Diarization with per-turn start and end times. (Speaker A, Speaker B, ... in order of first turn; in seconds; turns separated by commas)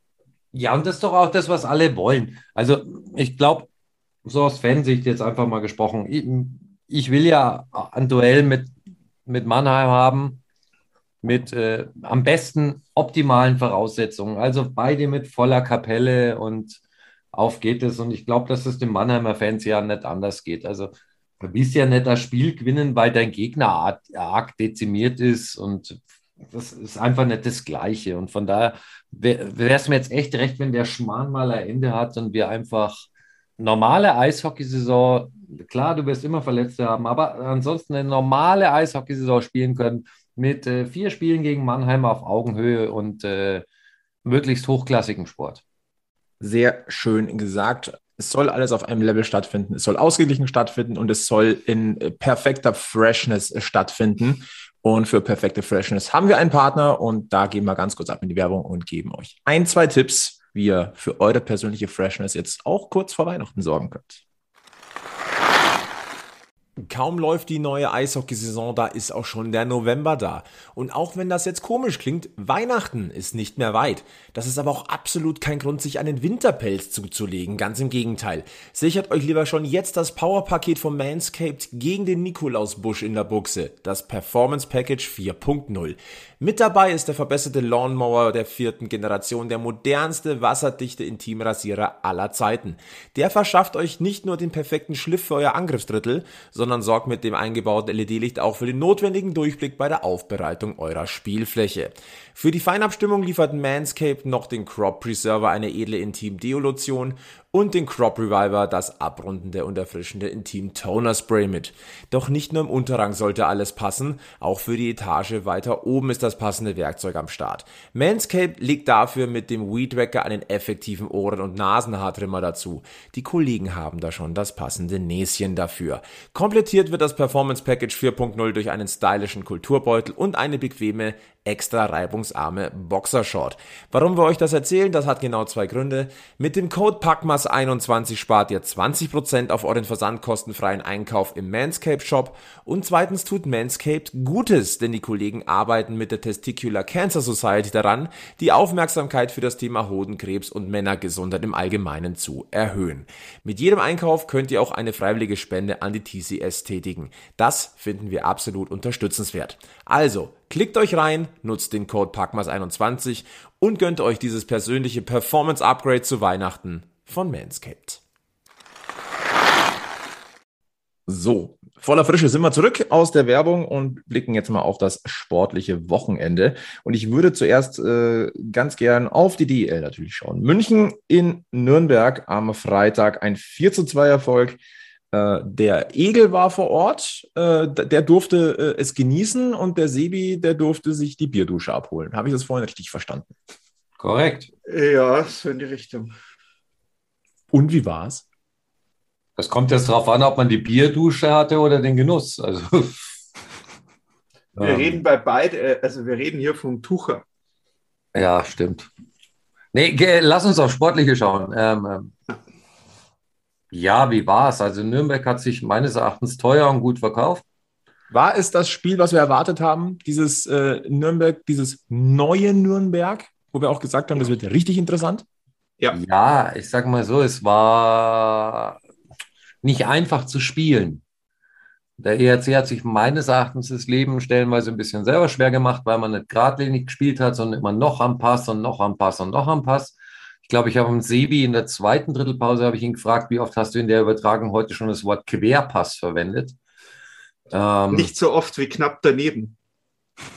Speaker A: 0.5-3.7, Speaker A: 4.2-8.8, Speaker A: 9.3-10.4, Speaker A: 11.2-16.8, Speaker A: 17.3-33.1, Speaker A: 33.6-43.7, Speaker A: 44.2-45.6, Speaker B: 46.4-64.2, Speaker B: 66.8-168.0, Speaker B: 171.1-184.6, Speaker B: 185.1-193.3, Speaker A: 194.0-194.5, Speaker C: 194.7-196.2, Speaker B: 197.5-198.2, Speaker A: 199.4-203.2, Speaker A: 204.6-205.0, Speaker C: 204.6-207.2, Speaker A: 208.2-208.9, Speaker A: 209.7-212.1, Speaker A: 213.7-217.4, Speaker B: 218.1-225.2, Speaker A: 225.9-228.8, Speaker A: 229.6-231.0, Speaker A: 232.0-246.6, Speaker A: 247.5-248.1, Speaker C: 247.9-249.6